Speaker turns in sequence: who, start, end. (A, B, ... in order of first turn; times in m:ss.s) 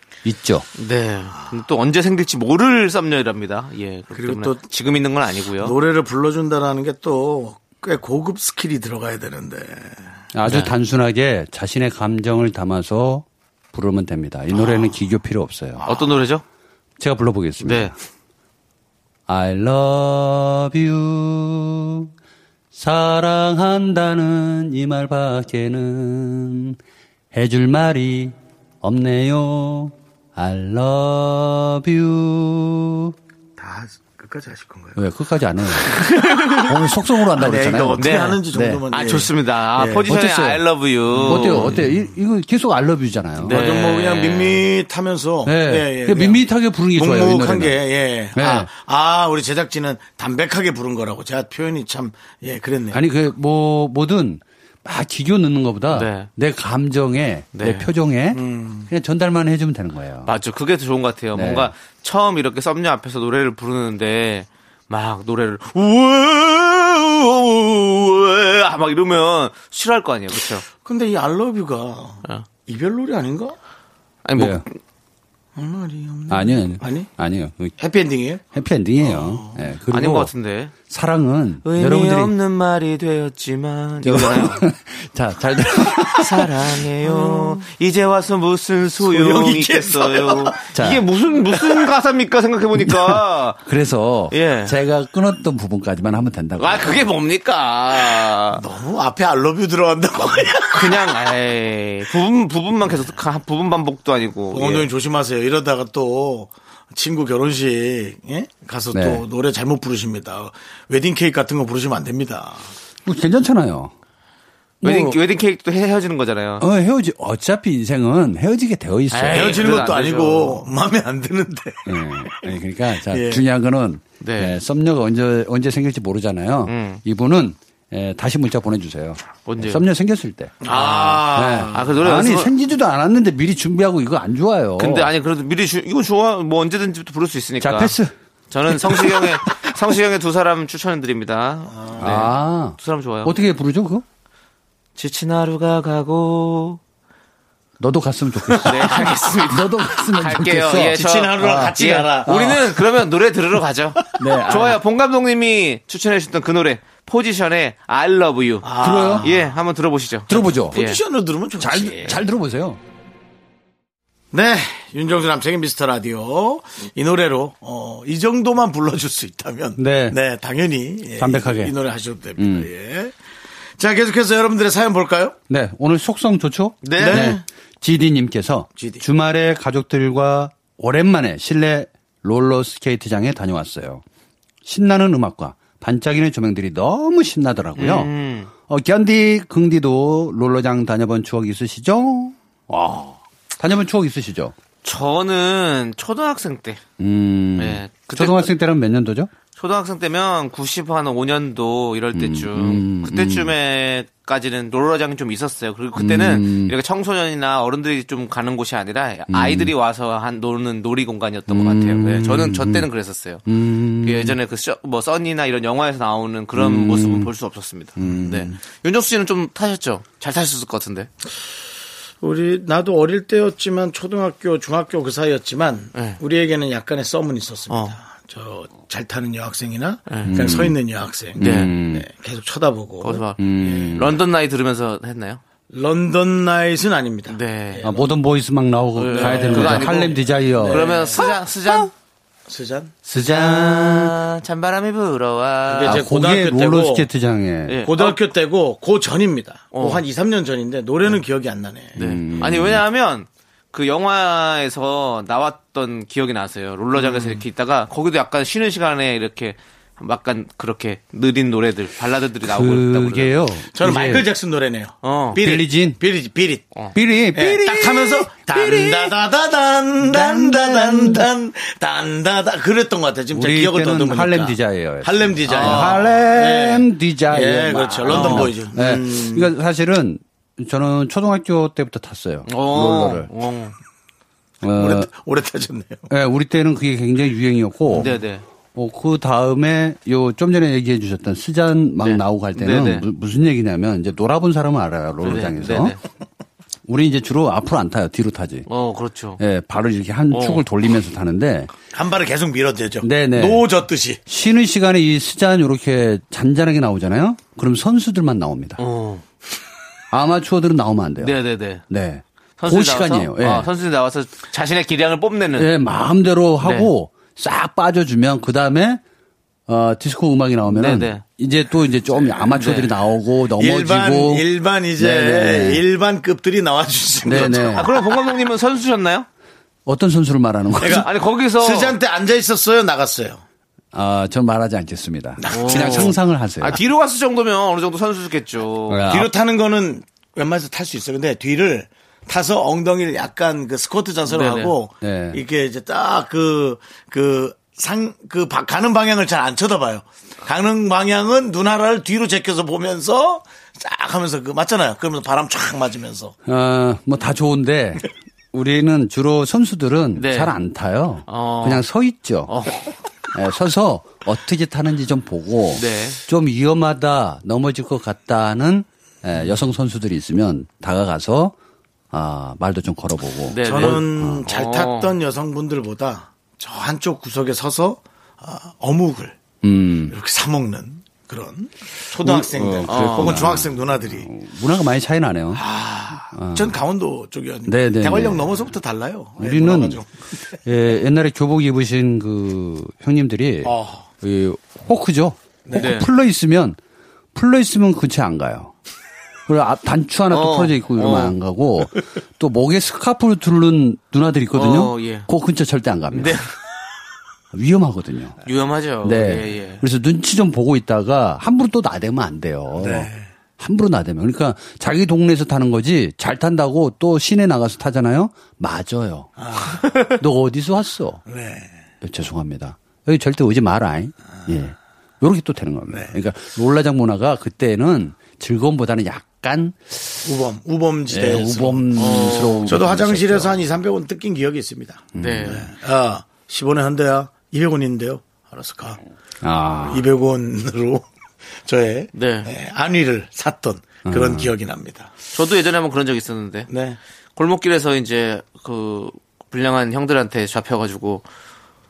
0:00.2-0:00.7 A
0:00.8-0:05.8 B
0:04.1-0:04.7 C
0:05.6-0:10.1 C
0:10.3-0:15.8 A
0:10.4-0:10.7 B
0:14.5-0:14.9 C
0:15.9-0:16.4 B
0:17.0-0:17.9 A
0:17.6-0:17.9 B
0:19.3-0:22.1 A
0:22.7-0:26.8 A
0:27.3-0:33.1 A
0:33.6-0:35.1 C
0:35.0-0:38.8 A
0:36.0-0:36.6 C
0:36.0-0:36.7 B
0:37.3-0:40.1 C
0:38.0-0:38.4 B
0:38.9-0:41.8 B
0:40.0-0:40.6 A
0:41.1-0:42.1 C
0:41.2-0:43.6 A
0:43.4-0:44.6 B
0:43.5-0:53.0 C
0:45.5-0:47.8 A
0:48.4-0:48.7 A
0:52.9-1:00.3 A
0:55.9-0:56.3 B
0:57.6-0:57.9 B
0:58.3-0:58.9 C
1:00.2-1:10.7 B
1:01.4-1:01.7 A
1:10.8-1:13.6 C
1:14.2-1:14.8 B
1:14.4-1:14.6 A
1:15.6-1:17.1 C
1:16.3-1:17.7 A
1:17.8-1:18.4 C
1:18.5-1:20.3 A
1:19.0-1:19.7 C
1:19.9-1:20.7 B
1:20.9-1:22.3 A
1:21.6-1:24.6 B
1:24.0-1:26.5 A
1:26.1-1:33.6 B
1:27.2-1:27.5 C
1:29.0-1:30.6 C
1:30.7-1:31.0 A
1:31.5-1:31.8 C
1:32.8-1:37.1 A
1:34.3-1:34.8 B
1:36.6-1:38.6 B
1:38.5-1:41.2 C
1:40.7-1:44.9 B
1:44.5-1:52.7 C
1:48.9-1:49.2 A
1:53.1-1:53.9 A
1:54.8-1:55.2 A
1:54.8-1:56.6 B
1:56.6-1:59.8 A
1:59.1-2:00.7 B
1:59.3-2:02.5 C
2:01.9-2:10.6 A
2:03.1-2:03.4 C
2:04.2-2:04.6 B
2:06.7-2:07.0 B
2:09.5-2:09.8 B
2:10.6-2:11.9 C
2:10.7-2:12.5 B
2:11.3-2:15.1 A
2:14.8-2:18.0 B
2:17.6-2:18.1 A
2:18.5-2:23.3 B
2:18.7-2:19.4 A
2:21.7-2:22.3 C
2:22.0-2:24.0 A
2:25.0-2:26.8 B
2:27.8-2:32.8 A
2:28.6-2:41.0 B
2:30.9-2:32.4 C
2:34.2-2:34.8 A
2:38.6-2:39.5 C
2:38.8-2:39.3 A
2:40.3-2:40.8 A
2:40.3-2:42.2 C
2:41.6-2:42.8 A
2:44.3-2:53.2 C
2:49.8-2:50.2 A
2:51.2-2:51.7 A
2:52.4-2:52.7 A
2:53.8-2:55.4 C
2:55.5-3:04.0 A
2:56.8-2:57.4 B
2:57.0-2:57.4 C
2:58.8-2:59.1 C
3:04.6-3:14.5 A
3:07.8-3:08.5 B
3:14.8-3:16.8 B
3:17.0-3:19.3 A
3:17.6-3:18.5 B
3:19.6-3:33.5 B
3:22.2-3:23.5 A
3:26.0-3:26.7 A
3:29.3-3:29.7 A
3:31.5-3:32.9 A
3:33.5-3:34.4 A
3:34.0-3:41.1 B
3:36.6-3:37.3 A
3:38.0-3:38.5 A
3:42.2-3:53.8 C
3:45.9-3:46.2 B
3:47.7-3:48.0 B
3:50.1-3:50.4 B
3:50.3-3:50.8 A
3:51.4-3:52.1 A
3:51.4-3:51.8 B
3:53.0-3:55.4 B
3:53.4-3:54.2 A
3:55.7-3:58.1 C
3:57.3-3:57.8 B
3:57.8-4:01.9 A
3:59.0-4:01.9 B
3:59.1-4:01.3 C
4:02.5-4:03.0 C
4:03.1-4:06.0 B
4:03.1-4:04.2 A
4:05.7-4:07.1 C
4:05.9-4:07.9 A
4:07.7-4:08.2 B
4:07.8-4:12.0 C
4:09.7-4:10.0 B
4:12.0-4:12.8 A
4:12.0-4:23.4 B
4:17.0-4:17.4 C
4:22.4-4:24.3 A
4:23.7-4:26.7 C
4:25.0-4:25.4 B
4:25.4-4:26.0 A
4:26.9-4:29.1 A
4:27.3-4:39.5 C
4:30.0-4:31.3 A
4:33.3-4:43.3 A
4:35.5-4:36.1 B
4:38.1-4:38.5 B
4:42.5-4:43.8 B
4:44.6-4:45.1 A
4:44.8-4:46.1 C
4:46.1-4:48.2 A
4:47.9-4:48.4 B
4:48.8-4:56.0 A
4:52.0-4:53.0 B
4:55.2-4:56.0 B
4:56.9-4:58.7 A
4:58.7-4:59.4 B
4:59.4-5:01.7 A
5:00.3-5:00.6 B
5:01.9-5:04.2 C
5:03.0-5:03.6 A
5:04.3-5:08.8 A
5:08.8-5:09.2 B
5:10.1-5:13.7 A
5:11.2-5:11.8 B
5:12.6-5:15.7 B
5:15.6-5:19.0 A
5:16.6-5:16.9 B
5:19.7-5:24.4 A
5:20.7-5:21.2 B
5:22.5-5:23.0 B
5:23.5-5:28.0 C
5:25.0-5:25.8 A
5:27.2-5:27.9 A
5:27.4-5:29.3 B
5:29.9-5:31.1 A
5:30.8-5:33.4 C
5:30.9-5:32.0 B
5:33.9-5:36.8 A
5:35.4-5:36.2 C
5:35.5-5:39.1 B
5:38.9-5:39.3 A
5:39.1-5:56.4 C
5:44.3-5:44.8 B
5:45.0-5:45.4 A
5:56.5-6:02.5 A
6:00.2-6:00.6 B
6:01.3-6:01.9 B
6:02.5-6:03.0 B
6:03.3-6:11.6 A
6:05.8-6:06.2 B
6:12.1-6:14.5 A
6:13.5-6:15.1 B
6:13.6-6:19.4 C
6:19.6-6:20.1 A
6:20.1-6:24.3 C
6:22.2-6:25.6 A
6:22.9-6:23.5 B
6:25.5-6:30.5 C
6:26.3-6:26.8 A
6:27.7-6:28.4 A
6:29.4-6:30.0 A
6:30.6-6:36.8 A
6:33.6-6:34.1 C
6:35.7-6:35.9 C
6:35.7-6:36.1 B
6:37.3-6:38.7 A
6:39.5-6:46.4 A
6:40.3-6:41.4 B
6:44.6-6:45.3 B
6:46.1-6:46.5 B
6:47.5-6:48.4 A
6:48.4-6:49.8 B
6:49.0-7:01.2 A
6:52.8-6:53.3 C
6:59.4-7:00.0 C
7:01.3-7:01.7 C
7:02.0-7:10.3 A
7:05.9-7:06.2 C
7:10.2-7:19.0 C
7:11.1-7:13.6 A
7:12.0-7:12.8 B
7:15.2-7:15.7 A
7:15.2-7:15.7 B
7:19.4-7:20.0 A
7:19.8-7:21.0 C
7:21.6-7:25.1 C
7:22.1-7:22.5 B
7:24.1-7:24.5 A
7:25.3-7:26.7 B
7:26.7-7:27.0 C
7:27.4-7:31.3 B